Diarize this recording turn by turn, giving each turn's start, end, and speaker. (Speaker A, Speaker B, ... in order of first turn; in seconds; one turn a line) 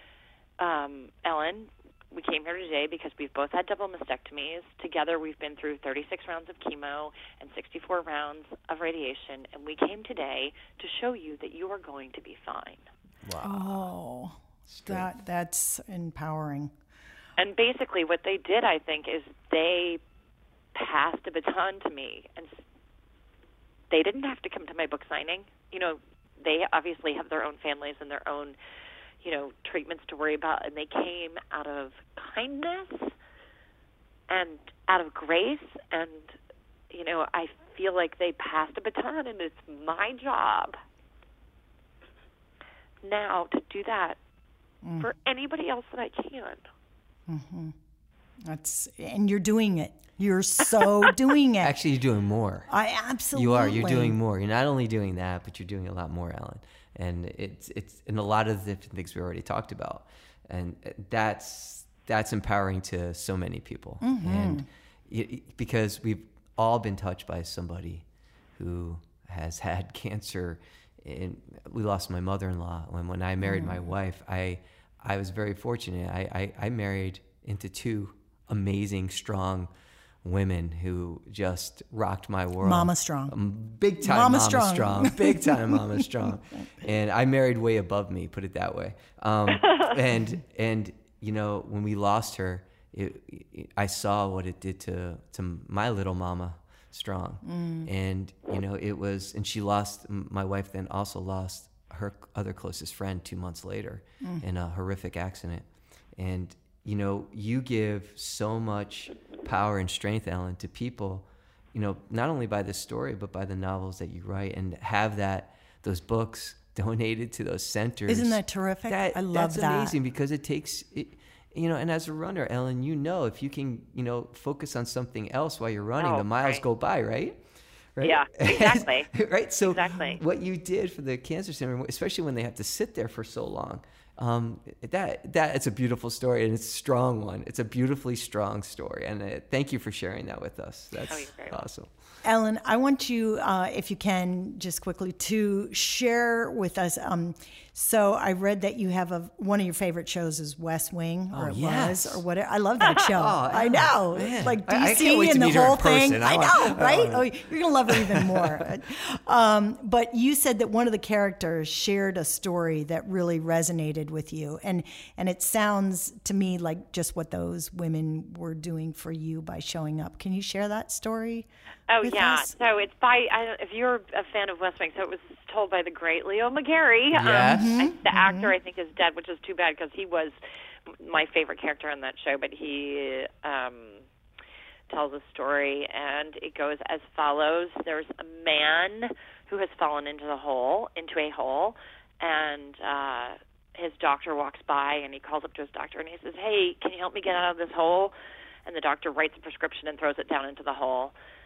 Speaker A: 0.6-12.8
Speaker B: 13.2-13.9
Speaker C: 13.4-16.7
Speaker B: 14.7-15.1
Speaker A: 17.4-20.0
Speaker A: 20.7-22.6
Speaker A: 23.9-28.6
Speaker A: 29.2-33.1
Speaker A: 34.3-36.3
Speaker A: 36.9-40.8
Speaker A: 43.0-44.2
Speaker C: 44.8-45.1
Speaker A: 45.0-46.7
Speaker C: 47.3-47.7
Speaker C: 48.5-51.8
Speaker B: 51.6-52.7
Speaker C: 52.7-54.2
Speaker B: 53.3-68.0
Speaker C: 64.0-64.7
Speaker B: 68.5-79.7
Speaker C: 73.4-73.8
Speaker B: 80.2-105.6
Speaker C: 82.6-83.3
Speaker C: 84.0-86.1
Speaker C: 97.5-97.9
Speaker B: 106.2-127.4
Speaker C: 118.1-120.0
Speaker A: 126.0-126.6
Speaker B: 128.0-141.9
Speaker A: 128.0-129.1
Speaker A: 129.6-130.2
Speaker A: 141.0-141.6
Speaker C: 142.2-171.5
Speaker B: 151.3-152.2
Speaker B: 153.0-157.3
Speaker B: 157.9-158.7
Speaker A: 171.9-180.3
Speaker C: 172.0-172.5
Speaker B: 177.1-177.8
Speaker C: 177.4-178.5
Speaker A: 180.9-184.0
Speaker A: 184.9-198.1
Speaker A: 198.7-201.1